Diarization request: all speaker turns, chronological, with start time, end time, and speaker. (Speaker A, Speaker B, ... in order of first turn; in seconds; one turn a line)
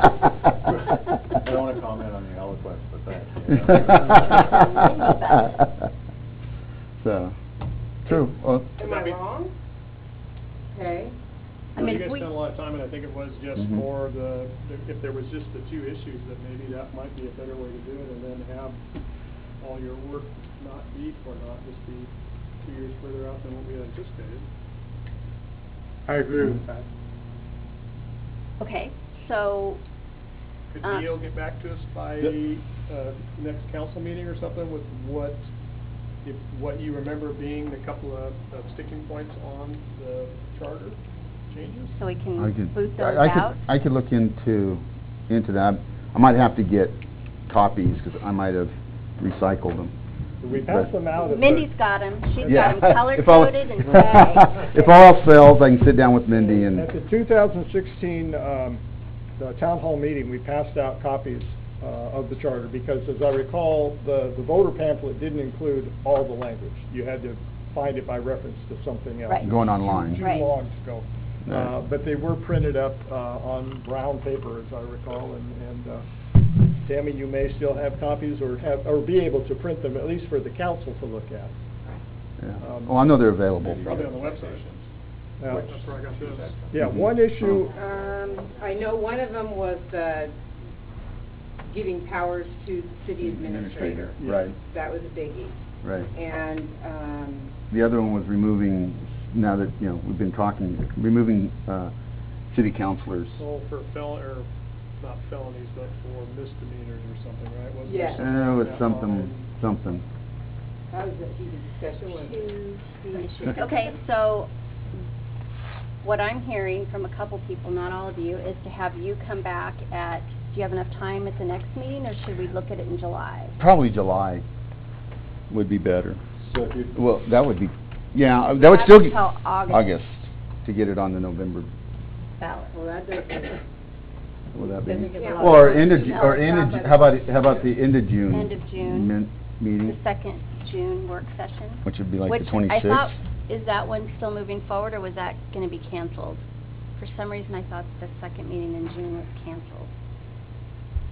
Speaker A: 1.3-4.8
Speaker B: 3.7-5.6
Speaker C: 4.0-5.6
Speaker B: 7.0-7.3
Speaker B: 8.0-8.7
Speaker D: 8.8-9.5
Speaker E: 8.8-9.2
Speaker D: 10.7-11.1
Speaker E: 11.7-18.8
Speaker C: 11.8-12.3
Speaker E: 19.6-24.5
Speaker F: 26.1-26.7
Speaker E: 26.3-26.8
Speaker C: 28.6-29.8
Speaker E: 30.7-35.5
Speaker E: 36.2-41.9
Speaker C: 41.9-43.6
Speaker B: 42.4-49.9
Speaker F: 50.4-51.7
Speaker B: 50.5-50.9
Speaker C: 51.2-54.8
Speaker B: 52.4-56.9
Speaker F: 56.4-58.8
Speaker F: 59.4-76.0
Speaker B: 69.4-70.2
Speaker C: 70.2-70.5
Speaker B: 71.5-71.7
Speaker F: 76.8-81.5
Speaker B: 82.4-84.1
Speaker F: 82.6-83.0
Speaker A: 83.5-84.8
Speaker E: 83.8-84.7
Speaker F: 85.4-85.7
Speaker A: 85.4-86.9
Speaker E: 85.5-86.5
Speaker F: 86.7-87.8
Speaker B: 86.8-87.6
Speaker D: 87.6-90.3
Speaker D: 91.7-95.6
Speaker B: 93.2-94.5
Speaker B: 95.8-96.1
Speaker D: 96.1-97.5
Speaker B: 97.7-101.9
Speaker B: 102.5-103.4
Speaker E: 103.4-104.5
Speaker E: 105.0-109.5
Speaker D: 107.8-108.3
Speaker B: 108.2-110.0
Speaker D: 110.9-113.7
Speaker C: 112.1-114.5
Speaker C: 116.0-123.6
Speaker B: 123.6-124.4
Speaker B: 125.5-126.2
Speaker A: 126.4-127.0
Speaker B: 126.9-131.7
Speaker C: 128.5-129.9
Speaker C: 132.4-132.7
Speaker D: 132.7-133.6
Speaker B: 134.5-140.0
Speaker D: 134.6-137.4
Speaker C: 135.1-136.7
Speaker C: 138.3-139.1
Speaker C: 139.8-146.4
Speaker B: 141.8-143.1
Speaker C: 147.0-149.9